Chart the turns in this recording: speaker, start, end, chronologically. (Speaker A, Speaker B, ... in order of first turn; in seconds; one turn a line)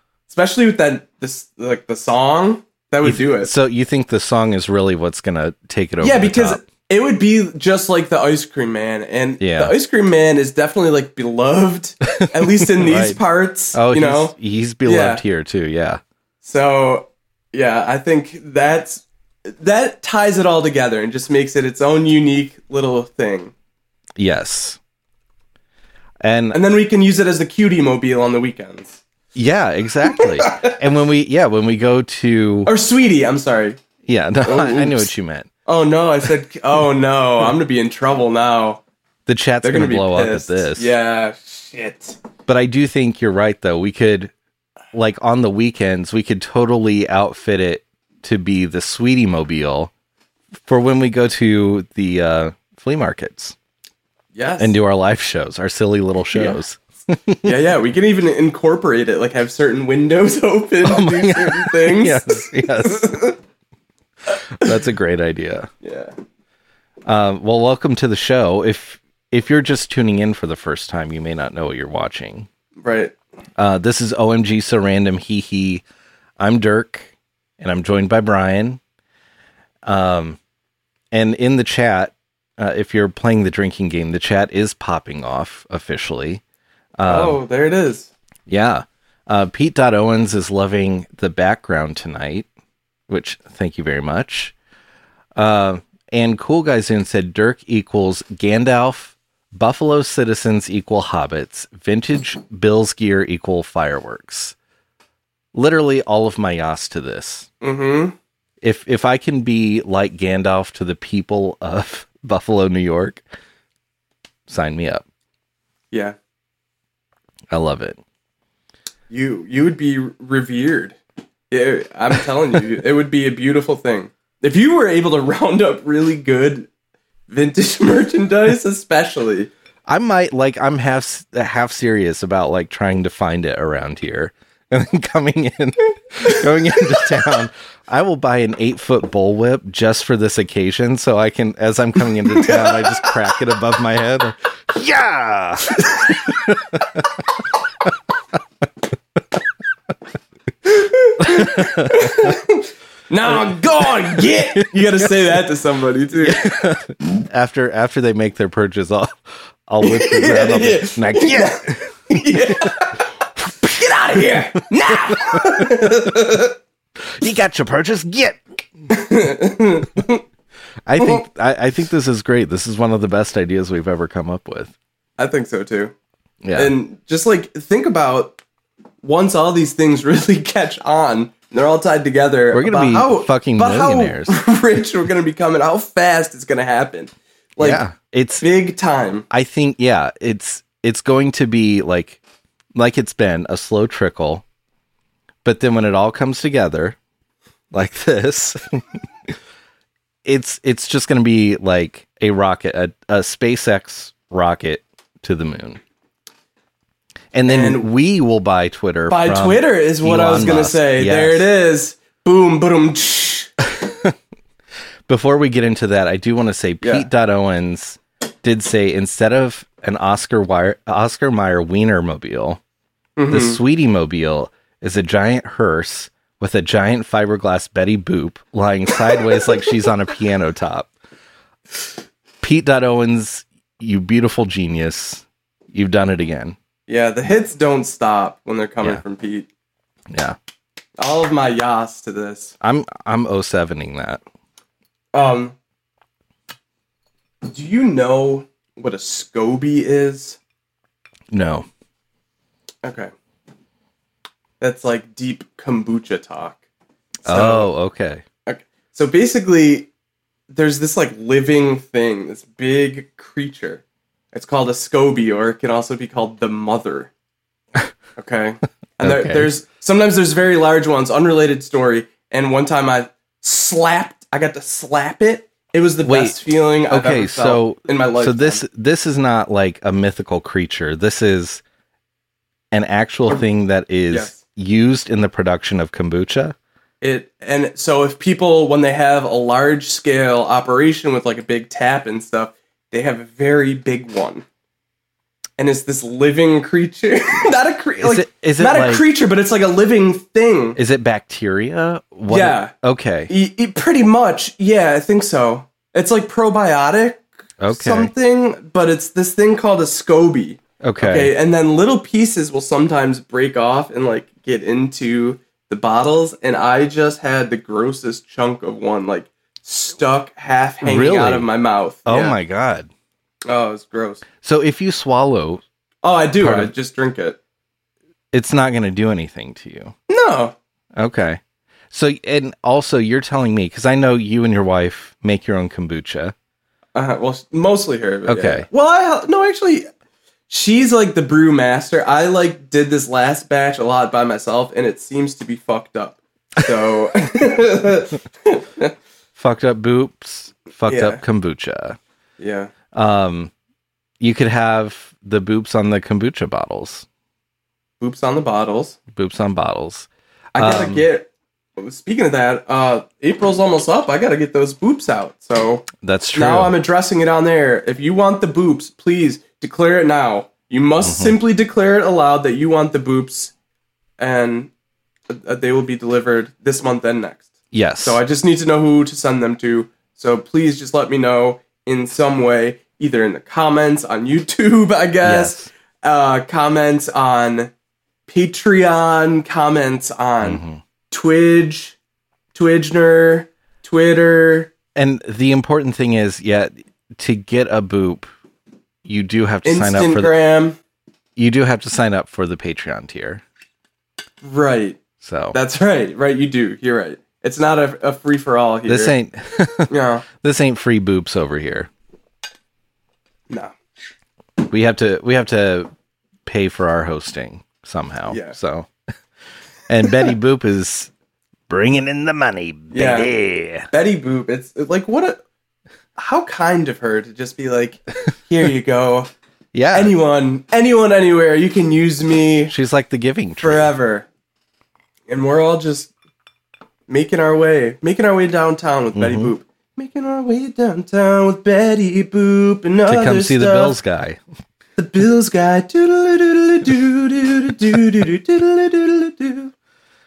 Speaker A: 0.3-3.5
Speaker B: 3.0-6.6
Speaker A: 6.0-15.2
Speaker B: 9.4-9.8
Speaker B: 12.1-13.2
Speaker B: 13.7-16.0
Speaker A: 16.4-23.5
Speaker B: 24.2-24.8
Speaker B: 26.2-26.6
Speaker A: 26.5-29.0
Speaker B: 29.3-32.7
Speaker A: 30.1-30.7
Speaker A: 32.6-33.8
Speaker B: 34.0-35.5
Speaker A: 34.4-35.1
Speaker A: 35.6-38.8
Speaker B: 39.2-40.9
Speaker A: 39.6-42.2
Speaker B: 42.5-44.3
Speaker B: 44.9-49.9
Speaker B: 50.6-53.5
Speaker A: 54.3-54.8
Speaker B: 54.6-57.5
Speaker A: 56.3-56.6
Speaker A: 57.4-63.4
Speaker B: 60.8-63.1
Speaker B: 64.3-65.7
Speaker A: 65.8-66.1
Speaker B: 67.0-72.5
Speaker A: 72.8-73.1
Speaker B: 73.6-75.8
Speaker B: 76.4-78.8
Speaker B: 79.8-80.4
Speaker B: 81.1-86.4
Speaker B: 87.0-87.4
Speaker A: 87.0-88.1
Speaker B: 88.5-92.5
Speaker B: 93.1-94.5
Speaker B: 95.3-104.5
Speaker B: 105.5-107.5
Speaker A: 107.6-108.2
Speaker B: 108.6-113.2
Speaker B: 114.5-115.0
Speaker A: 115.9-116.2
Speaker B: 117.5-118.0
Speaker A: 119.1-121.0
Speaker A: 121.5-126.7
Speaker A: 127.3-129.5
Speaker B: 129.9-147.0
Speaker A: 142.4-143.2
Speaker A: 145.8-146.1
Speaker A: 150.6-156.5
Speaker B: 151.2-152.3
Speaker B: 156.2-162.7
Speaker A: 159.8-163.0
Speaker A: 163.6-166.6
Speaker B: 165.3-165.6
Speaker B: 167.1-168.4
Speaker A: 168.9-170.2
Speaker B: 170.8-174.7
Speaker A: 175.2-175.9
Speaker B: 176.4-176.7
Speaker A: 176.5-178.4
Speaker A: 179.0-187.8
Speaker B: 182.5-184.3
Speaker B: 187.6-188.4
Speaker A: 188.4-189.2
Speaker B: 189.3-192.2
Speaker B: 192.7-194.4
Speaker B: 195.4-197.0
Speaker B: 197.7-198.9
Speaker B: 200.2-205.8
Speaker B: 207.3-211.4
Speaker A: 207.4-207.8
Speaker A: 209.1-213.5
Speaker B: 213.7-214.1
Speaker B: 215.1-222.6
Speaker A: 216.8-217.1
Speaker A: 223.2-223.6
Speaker B: 223.3-230.9
Speaker B: 232.4-236.6
Speaker A: 236.9-239.5
Speaker B: 240.1-240.4
Speaker A: 241.0-242.5
Speaker B: 242.6-244.2
Speaker A: 245.1-245.6
Speaker A: 247.4-250.4
Speaker B: 251.3-251.7
Speaker A: 252.8-253.1
Speaker A: 254.6-256.6
Speaker B: 257.2-258.2
Speaker A: 257.2-257.7
Speaker A: 258.4-259.9
Speaker A: 260.5-267.1
Speaker A: 268.2-278.6
Speaker B: 269.0-269.5
Speaker B: 276.0-281.6
Speaker B: 282.7-286.5
Speaker A: 284.1-284.4
Speaker A: 287.0-294.4
Speaker A: 295.6-300.8
Speaker B: 298.0-299.0
Speaker B: 300.8-303.3
Speaker A: 302.3-302.7
Speaker A: 303.3-322.4
Speaker B: 307.6-308.1
Speaker B: 310.8-311.3
Speaker B: 320.8-321.5
Speaker B: 322.0-322.9
Speaker A: 323.5-324.2
Speaker B: 324.4-325.6
Speaker A: 326.0-327.4
Speaker B: 326.4-326.7
Speaker B: 328.3-329.9
Speaker A: 330.1-330.5
Speaker B: 330.9-331.4
Speaker B: 331.9-336.3
Speaker A: 336.9-339.9
Speaker B: 338.3-338.7
Speaker A: 340.5-348.9
Speaker B: 349.4-352.0
Speaker A: 350.9-351.2
Speaker A: 352.4-352.7
Speaker B: 352.9-353.5
Speaker B: 354.2-357.0
Speaker A: 358.0-359.0
Speaker B: 359.1-361.0
Speaker A: 360.5-373.5
Speaker B: 366.0-366.8
Speaker B: 371.0-371.4
Speaker A: 374.2-374.7
Speaker A: 375.3-377.5
Speaker B: 377.7-378.2
Speaker A: 378.0-387.7
Speaker B: 385.2-385.7
Speaker A: 388.3-392.0
Speaker B: 390.4-390.8
Speaker A: 392.5-394.7
Speaker B: 394.9-398.3
Speaker B: 399.0-400.3
Speaker A: 399.6-400.8
Speaker B: 401.4-403.4
Speaker A: 404.4-405.0
Speaker B: 405.2-405.6
Speaker A: 405.5-409.1
Speaker B: 408.9-411.9
Speaker A: 409.9-410.2
Speaker B: 414.6-415.9
Speaker B: 416.4-418.9
Speaker A: 418.3-418.6
Speaker B: 419.9-421.1
Speaker B: 421.7-423.9
Speaker A: 422.9-423.3
Speaker A: 423.9-425.4
Speaker A: 426.1-429.3
Speaker B: 429.7-430.1
Speaker A: 429.9-432.7
Speaker B: 432.7-433.9
Speaker A: 433.6-434.3
Speaker A: 435.3-436.1
Speaker A: 437.1-444.0
Speaker B: 439.1-439.5
Speaker B: 443.1-444.4
Speaker A: 445.0-449.7